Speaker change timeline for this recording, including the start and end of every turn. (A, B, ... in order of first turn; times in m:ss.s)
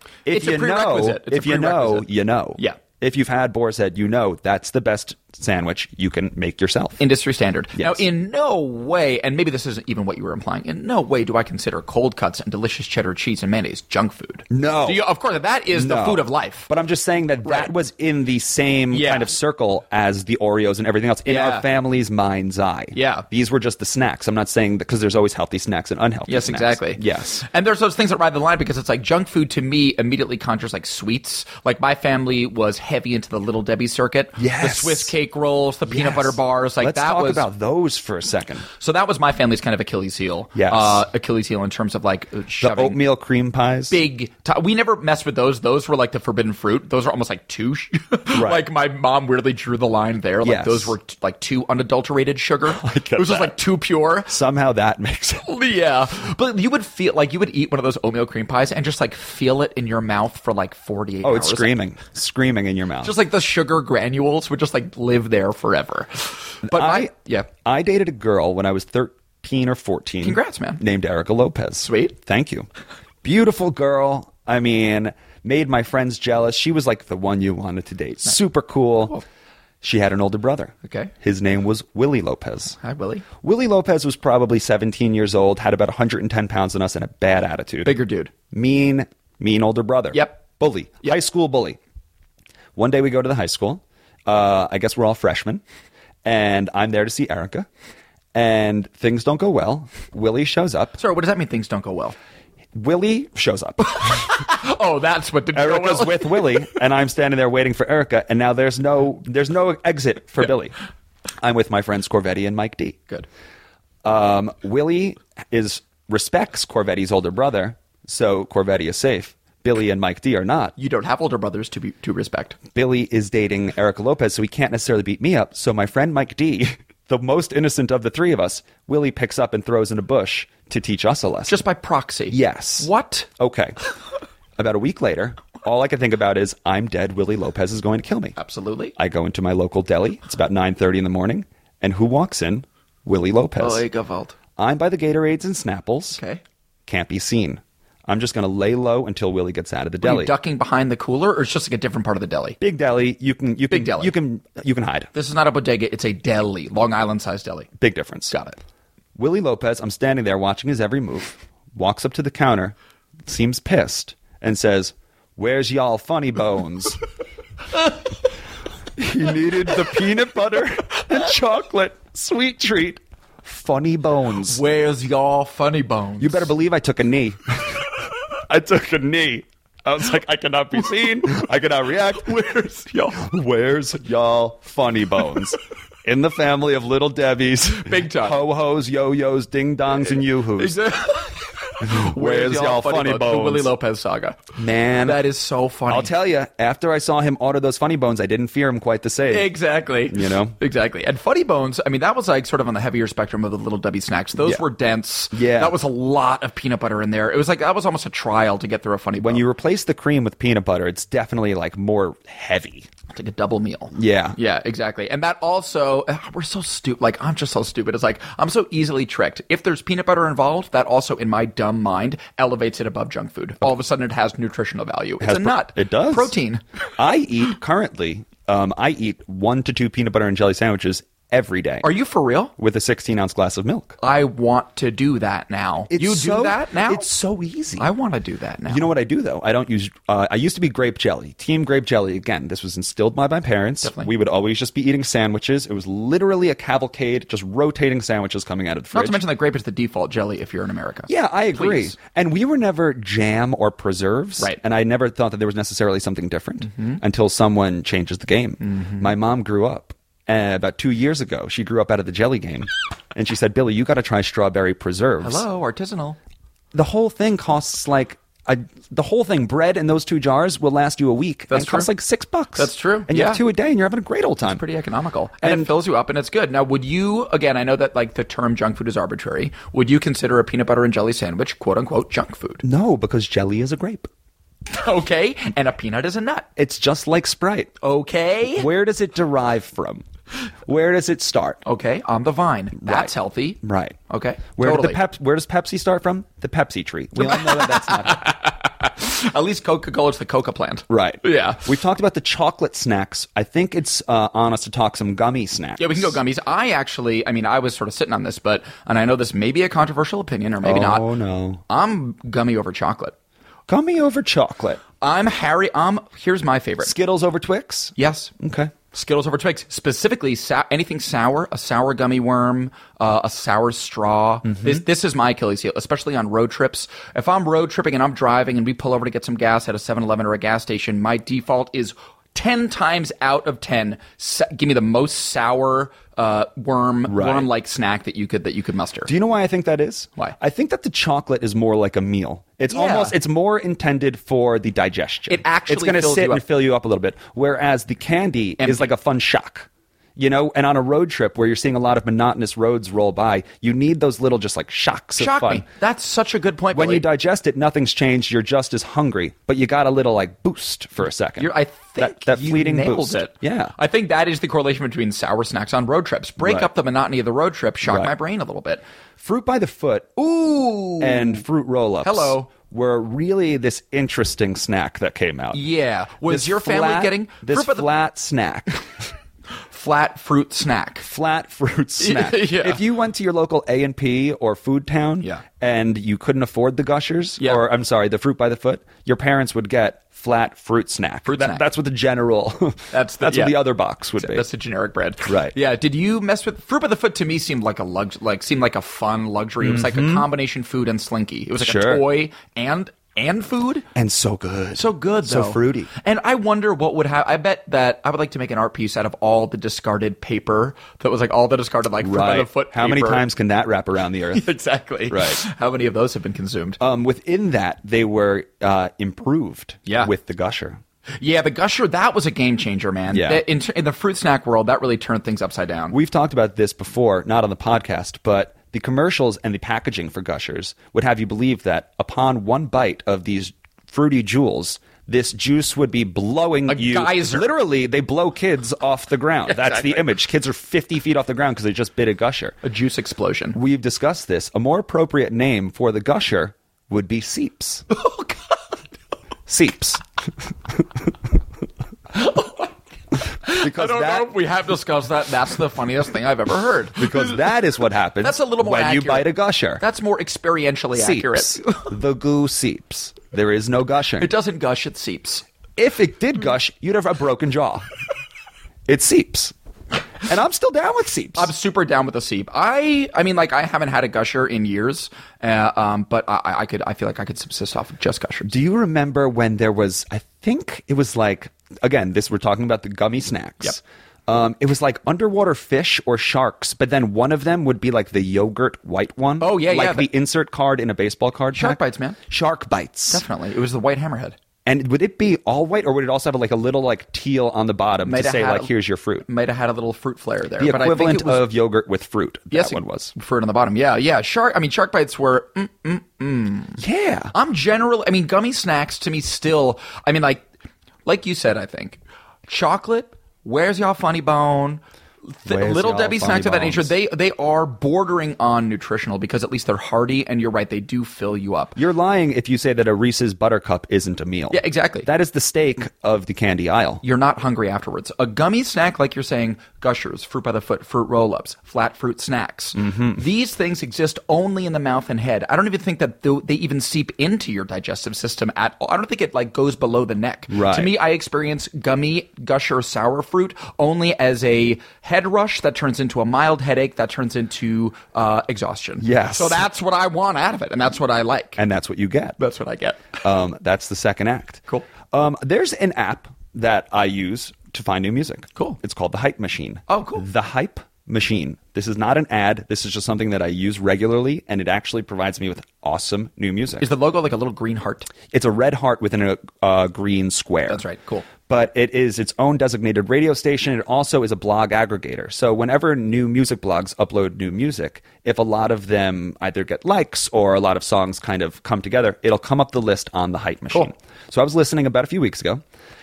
0:00.2-0:07.0 A
0:00.3-0:02.8 B
0:07.0-0:16.7 B
0:07.8-0:08.0 A
0:14.5-0:15.0 A
0:15.7-0:27.4 A
0:17.4-0:17.7 B
0:18.9-0:19.3 B
0:21.2-0:21.6 B
0:22.9-0:23.2 B
0:26.3-0:37.5 B
0:34.4-0:35.1 A
0:35.9-0:38.7 A
0:38.8-0:43.0 B
0:40.5-0:41.0 A
0:42.6-0:44.0 A
0:43.9-0:54.3 B
0:48.3-0:48.6 A
0:50.4-0:50.9 A
0:52.7-0:53.6 A
0:54.3-0:55.5 A
0:55.4-1:01.7 B
1:01.2-1:03.1 A
1:03.0-1:07.5 B
1:06.6-1:12.7 A
1:10.2-1:10.8 B
1:11.8-1:12.1 B
1:13.2-1:19.2 A
1:19.8-1:22.8 A
1:20.8-1:21.1 B
1:22.8-1:23.2 B
1:23.4-1:28.0 A
1:27.8-1:28.3 B
1:28.5-1:31.8 A
1:30.1-1:30.4 B
1:32.8-1:35.6 A
1:36.2-1:37.7 A
1:38.3-1:41.0 A
1:41.0-1:42.2 B
1:42.7-1:44.3 A
1:43.9-1:46.7 B
1:45.5-1:50.7 A
1:51.4-1:53.0 A
1:54.0-2:00.8 A
2:00.8-2:02.6 B
2:02.7-2:11.6 A
2:11.5-2:13.3 B
2:12.3-2:13.8 A
2:14.6-2:18.4 A
2:18.4-2:18.9 B
2:19.0-2:23.8 A
2:23.6-2:24.3 B
2:24.6-2:26.2 A
2:26.1-2:26.4 B
2:26.9-2:30.3 A
2:30.0-2:32.6 B
2:32.6-2:35.1 A
2:33.7-2:34.1 B
2:35.1-2:37.7 B
2:37.8-2:38.3 A
2:38.3-2:38.6 B
2:39.2-2:47.0 A
2:49.0-2:54.6 A
2:54.4-2:56.5 B
2:56.2-2:57.9 A
2:58.5-3:02.4 A
3:02.2-3:03.2 B
3:03.1-3:10.8 A
3:07.8-3:08.4 B
3:10.6-3:14.4 B
3:11.8-3:13.7 A
3:14.6-3:15.2 A
3:15.0-3:16.1 B
3:15.9-3:19.5 A
3:19.3-3:29.4 B
3:20.1-3:20.6 A
3:25.3-3:25.8 A
3:29.2-3:32.9 A
3:33.1-3:46.6 B
3:33.9-3:34.4 A
3:45.2-3:46.3 A
3:47.0-3:51.9 A
3:51.8-3:52.5 B
3:52.6-3:54.0 A
3:54.0-3:57.1 B
3:55.9-3:57.9 A
3:57.8-3:58.9 B
3:58.7-4:09.2 A
4:03.8-4:04.1 B
4:08.9-4:12.0 B
4:11.1-4:25.4 A
4:16.7-4:17.0 B
4:18.6-4:19.1 B
4:25.2-4:26.2 B
4:26.7-4:34.6 A
4:31.5-4:31.9 B
4:32.6-4:33.4 B
4:34.4-4:42.6 B
4:35.4-4:35.7 A
4:42.6-4:44.1 A
4:44.7-4:46.5 B
4:46.6-4:47.7 A
4:47.8-4:48.7 B
4:48.5-4:50.0 A
4:50.6-4:51.6 A
4:51.6-4:55.0 B
4:52.8-4:54.0 A
4:54.6-4:58.3 A
4:57.2-5:01.6 B
5:00.9-5:06.2 A
5:05.8-5:11.1 B
5:10.6-5:11.6 A
5:11.7-5:13.1 B
5:13.7-5:14.8 A
5:15.0-5:16.9 B
5:16.8-5:18.7 A
5:18.0-5:18.3 B
5:18.9-5:39.1 B
5:24.5-5:24.8 A
5:37.1-5:37.5 A
5:39.1-5:55.6 A
5:42.7-5:43.1 B
5:45.3-5:46.4 B
5:48.6-5:48.9 B
5:55.2-5:57.1 B
5:56.7-6:03.7 A
6:01.4-6:08.8 B
6:06.4-6:06.7 A
6:07.8-6:08.1 A
6:09.2-6:10.1 A
6:10.2-6:11.4 B
6:11.0-6:15.6 A
6:12.0-6:12.5 B
6:15.5-6:17.9 B
6:16.2-6:18.8 A
6:19.7-6:21.0 B
6:21.0-6:34.4 A
6:22.0-6:22.8 B
6:31.2-6:31.6 B
6:32.9-6:33.6 B
6:34.2-6:43.8 B
6:35.2-6:35.5 A
6:39.6-6:40.3 A
6:41.6-6:42.0 A
6:43.9-6:45.9 A
6:44.8-6:53.2 B
6:52.0-6:54.4 A
6:54.3-6:56.8 B
6:55.1-6:55.4 A
6:56.8-7:00.8 A
6:59.8-7:00.1 B
7:01.2-7:05.9 B
7:03.1-7:03.4 A
7:05.9-7:22.6 A
7:16.7-7:17.5 B
7:19.5-7:20.0 B
7:22.6-7:23.6 B
7:23.5-7:27.8 A
7:27.9-7:28.4 B
7:29.5-7:30.0 A
7:32.1-7:32.7 B
7:33.3-7:37.4 B
7:33.6-7:34.3 A
7:37.0-7:39.8 A
7:38.2-7:41.8 B
7:40.9-7:44.3 A
7:44.2-7:45.4 B
7:45.8-7:47.9 A
7:48.9-7:49.5 A
7:50.2-7:51.5 A
7:51.3-7:58.6 B
7:58.4-8:13.2 A
8:09.4-8:10.1 B
8:11.5-8:12.2 B
8:13.1-8:14.4 B
8:14.6-8:19.3 A
8:18.0-8:18.7 B
8:19.2-8:21.5 B
8:20.6-8:23.1 A
8:22.5-8:26.8 B
8:26.8-8:27.3 A
8:27.3-8:30.5 B
8:31.0-8:41.8 B
8:35.4-8:36.9 A
8:41.8-8:47.0 A
8:44.5-8:45.1 B
8:47.0-9:11.6 B
8:52.8-8:53.2 A
9:00.5-9:01.0 A
9:09.0-9:09.6 A
9:11.6-9:12.4 A
9:12.4-9:13.2 B
9:13.2-9:26.9 A
9:19.9-9:20.2 B
9:26.8-9:28.1 B
9:28.3-9:30.8 A
9:30.7-9:31.2 B
9:31.5-9:45.6 A